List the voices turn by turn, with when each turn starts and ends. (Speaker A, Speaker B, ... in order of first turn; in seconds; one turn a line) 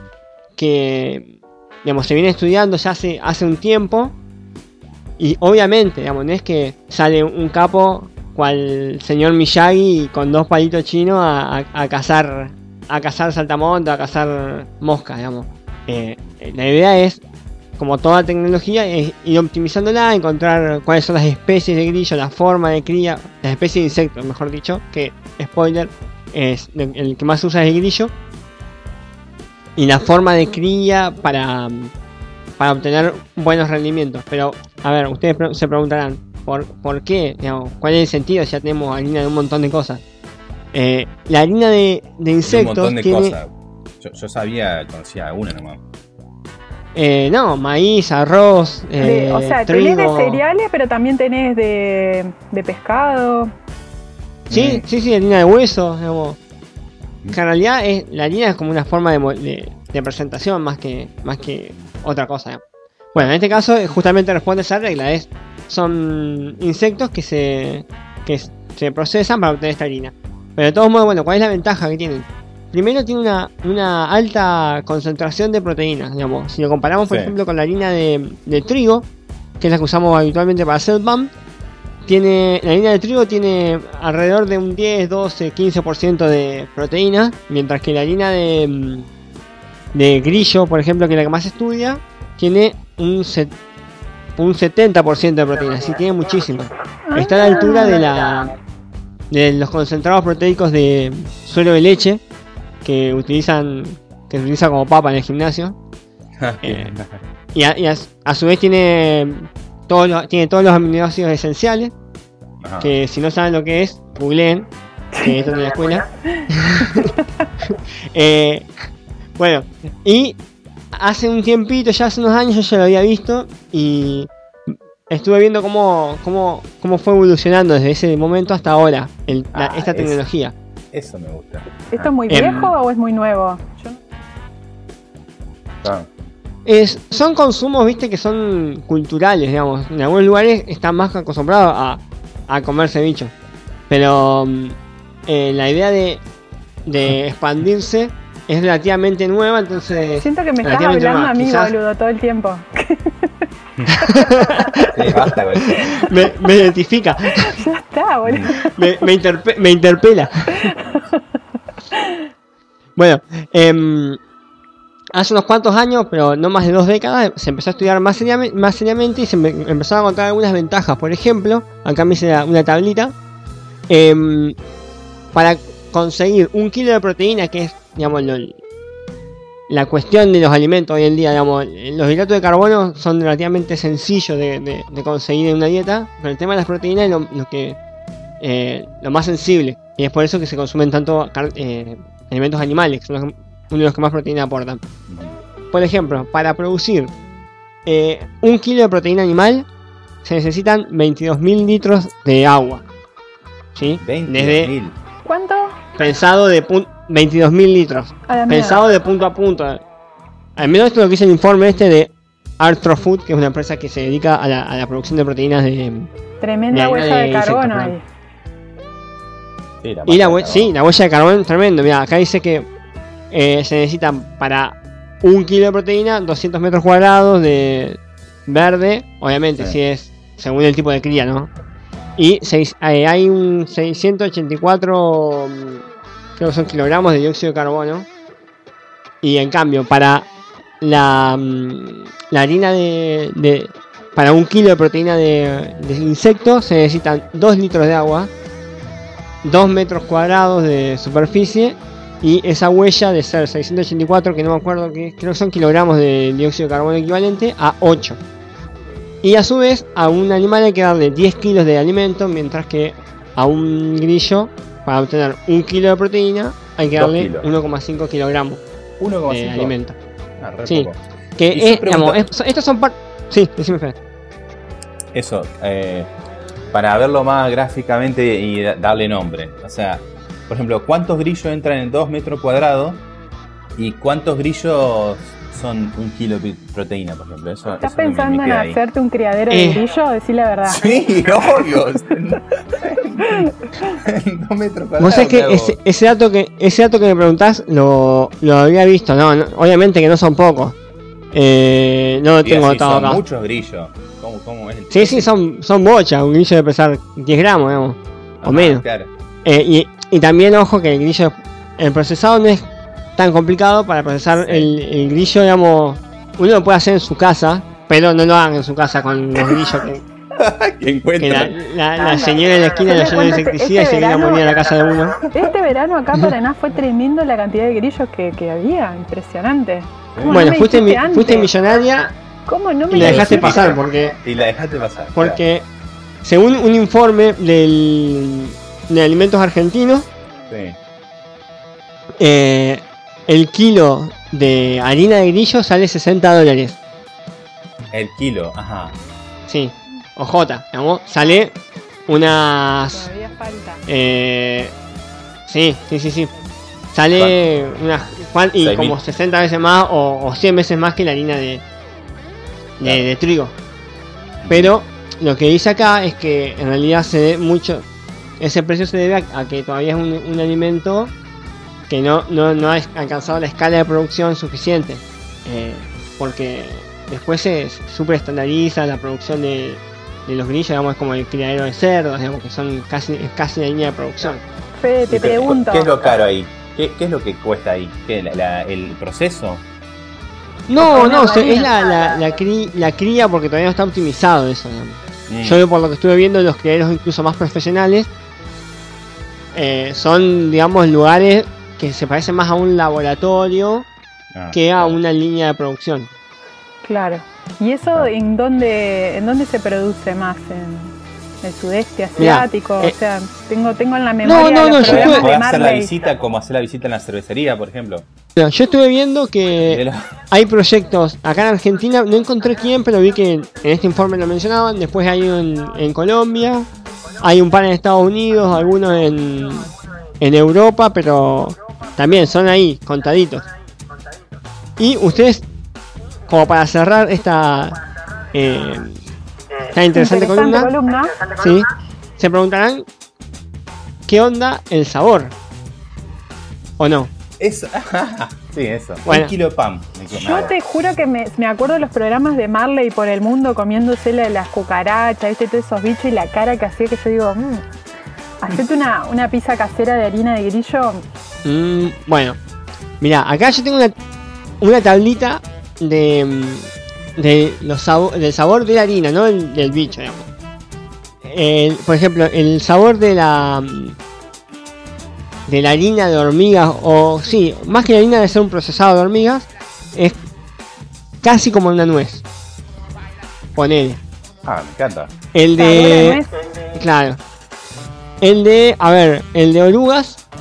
Speaker A: 0.6-1.3
Speaker A: 1.8-4.1
Speaker A: 5.2-17.2
Speaker A: 17.8-28.1
Speaker A: 29.8-31.9
Speaker A: 32.6-40.0
Speaker A: 40.7-43.4
Speaker B: 42.5-43.5
Speaker B: 44.0-45.8
Speaker A: 46.9-50.4
Speaker C: 49.0-53.5
Speaker B: 54.5-54.8
Speaker A: 54.5-56.4
Speaker A: 57.3-62.6
Speaker A: 63.1-79.1
Speaker B: 77.0-77.3
Speaker A: 79.6-81.3
Speaker A: 82.0-89.1
Speaker A: 89.9-93.5
Speaker A: 94.4-98.5
Speaker C: 97.1-98.1
Speaker A: 99.3-102.2
Speaker A: 102.8-105.8
Speaker B: 106.4-107.2
Speaker A: 106.6-106.9
Speaker A: 107.5-111.9
Speaker B: 112.6-112.9
Speaker A: 112.8-114.7
Speaker C: 115.1-115.4
Speaker A: 115.2-118.7
Speaker C: 116.3-117.2
Speaker A: 119.4-120.4
Speaker A: 120.9-130.5
Speaker B: 129.5-130.2
Speaker B: 130.9-132.1
Speaker C: 131.9-134.0
Speaker A: 132.3-132.7
Speaker B: 135.8-136.1
Speaker A: 136.7-143.3
Speaker A: 143.9-144.8
Speaker A: 145.3-146.2
Speaker A: 146.8-151.7
Speaker C: 150.2-153.3
Speaker A: 153.9-157.6
Speaker C: 154.0-154.9
Speaker B: 154.9-156.0
Speaker C: 157.2-159.1
Speaker B: 158.2-158.5
Speaker A: 158.6-160.7
Speaker C: 160.5-161.2
Speaker C: 161.9-162.2
Speaker A: 163.0-164.2
Speaker A: 165.1-173.1
Speaker A: 173.9-174.6
Speaker A: 175.3-178.6
Speaker A: 179.7-187.8
Speaker A: 188.4-194.8
Speaker B: 195.1-195.4
Speaker A: 195.7-197.1
Speaker A: 197.8-199.7
Speaker A: 200.2-202.8
Speaker A: 203.7-204.7
Speaker B: 204.0-205.0
Speaker C: 205.2-205.8
Speaker A: 205.9-209.8
Speaker C: 208.3-208.8
Speaker A: 210.6-216.1
Speaker C: 216.4-218.0
Speaker A: 216.7-217.9
Speaker B: 219.8-220.7
Speaker A: 220.1-222.7
Speaker A: 223.3-231.5
Speaker A: 232.2-235.8
Speaker A: 236.4-238.1
Speaker A: 239.2-240.3
Speaker A: 240.8-248.3
Speaker A: 249.4-258.2
Speaker A: 259.2-268.6
Speaker B: 266.9-267.5
Speaker B: 269.0-269.7
Speaker A: 269.3-269.9
Speaker B: 270.4-272.2
Speaker A: 270.7-274.0
Speaker B: 275.1-276.1
Speaker B: 276.7-283.1
Speaker B: 283.8-288.8
Speaker C: 287.8-290.9
Speaker A: 289.5-289.8
Speaker B: 290.7-295.8
Speaker C: 293.3-294.0
Speaker A: 295.0-300.8
Speaker A: 301.3-303.2
Speaker B: 302.4-305.3
Speaker A: 304.9-308.8
Speaker B: 308.4-309.1
Speaker A: 309.4-320.0
Speaker B: 314.4-314.7
Speaker B: 320.4-321.6
Speaker A: 321.2-325.2
Speaker C: 322.8-324.6
Speaker C: 325.3-331.5
Speaker B: 330.1-330.4
Speaker A: 330.2-332.1
Speaker C: 332.4-333.6
Speaker A: 332.9-334.2
Speaker B: 332.9-335.4
Speaker A: 335.1-335.6
Speaker A: 336.2-340.1
Speaker B: 340.5-340.8
Speaker A: 342.2-346.8
Speaker B: 347.9-348.9
Speaker A: 349.5-351.5
Speaker A: 352.1-353.1
Speaker C: 352.9-353.8
Speaker A: 353.9-354.7
Speaker A: 355.5-356.3
Speaker A: 356.9-361.6
Speaker B: 358.6-359.0
Speaker A: 362.8-363.5
Speaker B: 362.8-363.1
Speaker B: 364.4-364.7
Speaker A: 364.5-367.9
Speaker A: 368.4-371.1
Speaker A: 371.9-384.4
Speaker C: 384.8-385.9
Speaker B: 385.1-389.6
Speaker A: 390.7-398.1
Speaker C: 390.8-391.7
Speaker B: 395.3-395.6
Speaker A: 399.5-403.9
Speaker B: 404.3-405.0
Speaker A: 404.5-406.1
Speaker C: 406.8-415.9
Speaker A: 412.2-412.9
Speaker A: 414.2-415.3
Speaker B: 414.8-418.1
Speaker A: 418.4-426.7
Speaker B: 419.7-420.1
Speaker A: 427.2-433.4
Speaker A: 434.8-435.4
Speaker A: 436.3-437.8
Speaker A: 438.3-439.0
Speaker A: 439.7-442.9
Speaker C: 439.9-441.2
Speaker A: 444.1-445.3
Speaker A: 446.8-447.1
Speaker B: 447.4-450.5
Speaker A: 449.1-449.3
Speaker C: 450.1-457.6
Speaker C: 458.4-461.0
Speaker A: 461.4-462.4
Speaker A: 463.0-463.9
Speaker A: 464.6-470.3
Speaker A: 471.2-474.0
Speaker A: 475.5-480.2
Speaker A: 481.2-482.2
Speaker A: 483.6-484.0
Speaker B: 484.4-485.1
Speaker A: 485.3-486.2
Speaker C: 485.6-486.3
Speaker A: 486.7-487.2
Speaker A: 488.2-490.2